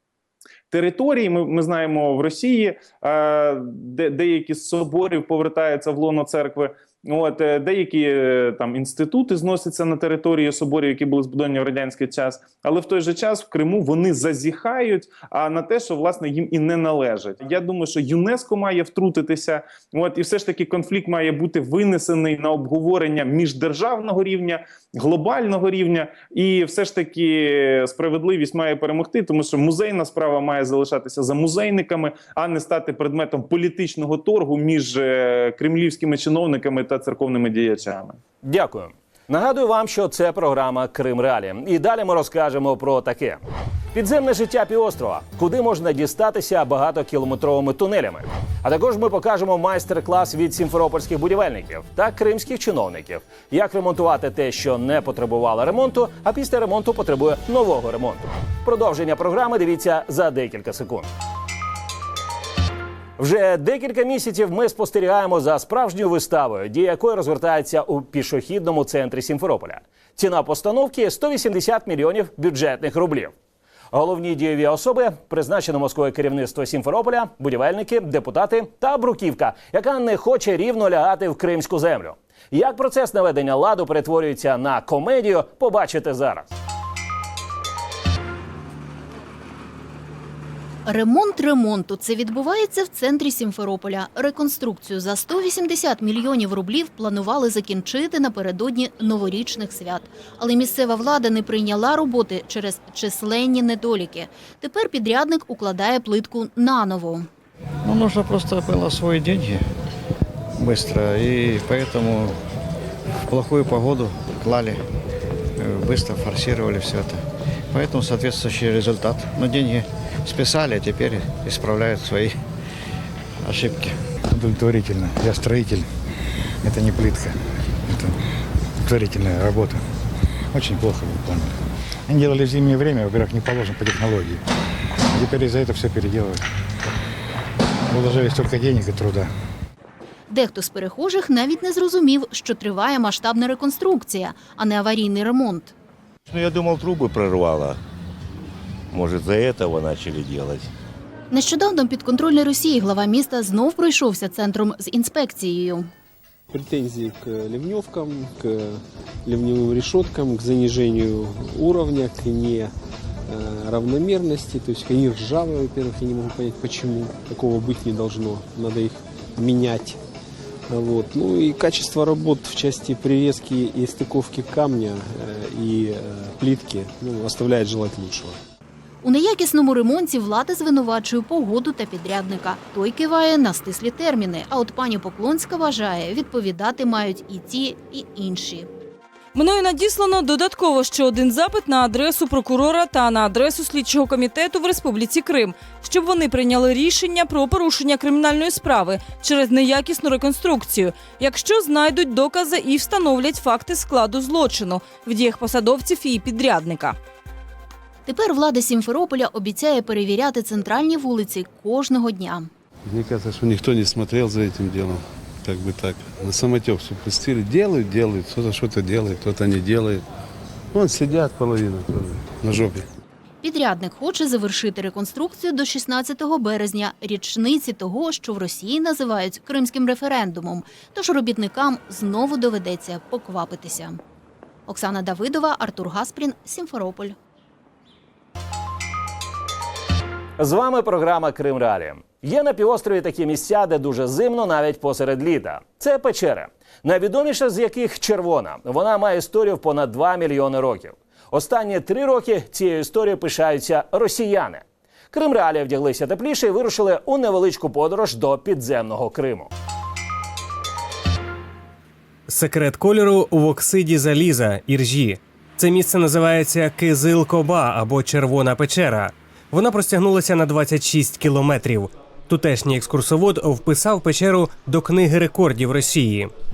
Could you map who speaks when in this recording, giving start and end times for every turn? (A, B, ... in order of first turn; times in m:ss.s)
0:00.7-0:38.2 A
0:38.4-0:43.4 B
0:43.9-1:01.1 B
1:03.2-1:13.3 B
1:13.9-1:26.5 B
1:30.8-1:47.3 C
1:47.8-1:49.6 D
1:50.6-1:52.4 D
1:53.3-1:54.8 D
1:55.6-2:02.4 D
2:03.4-2:04.0 D
2:04.3-2:05.9 E
2:06.6-2:08.2 E
2:08.8-2:09.8 E
2:10.5-2:11.6 E
2:12.1-2:14.4 E
2:15.1-2:16.4 E
2:17.9-2:19.3 E
2:20.3-2:25.7 C
2:26.2-2:27.8 F
2:28.9-2:30.7 F
2:31.3-2:35.9 C
2:36.5-2:42.7 G
2:43.3-2:50.0 G
2:50.7-2:58.4 G
2:59.0-3:08.7 C
3:09.3-3:27.0 H
3:28.1-3:32.5 C
3:32.8-3:40.0 I
3:40.7-3:42.8 I
3:43.4-3:54.0 C
3:54.7-3:57.2 C
4:00.4-4:19.5 B
4:22.3-4:36.3 J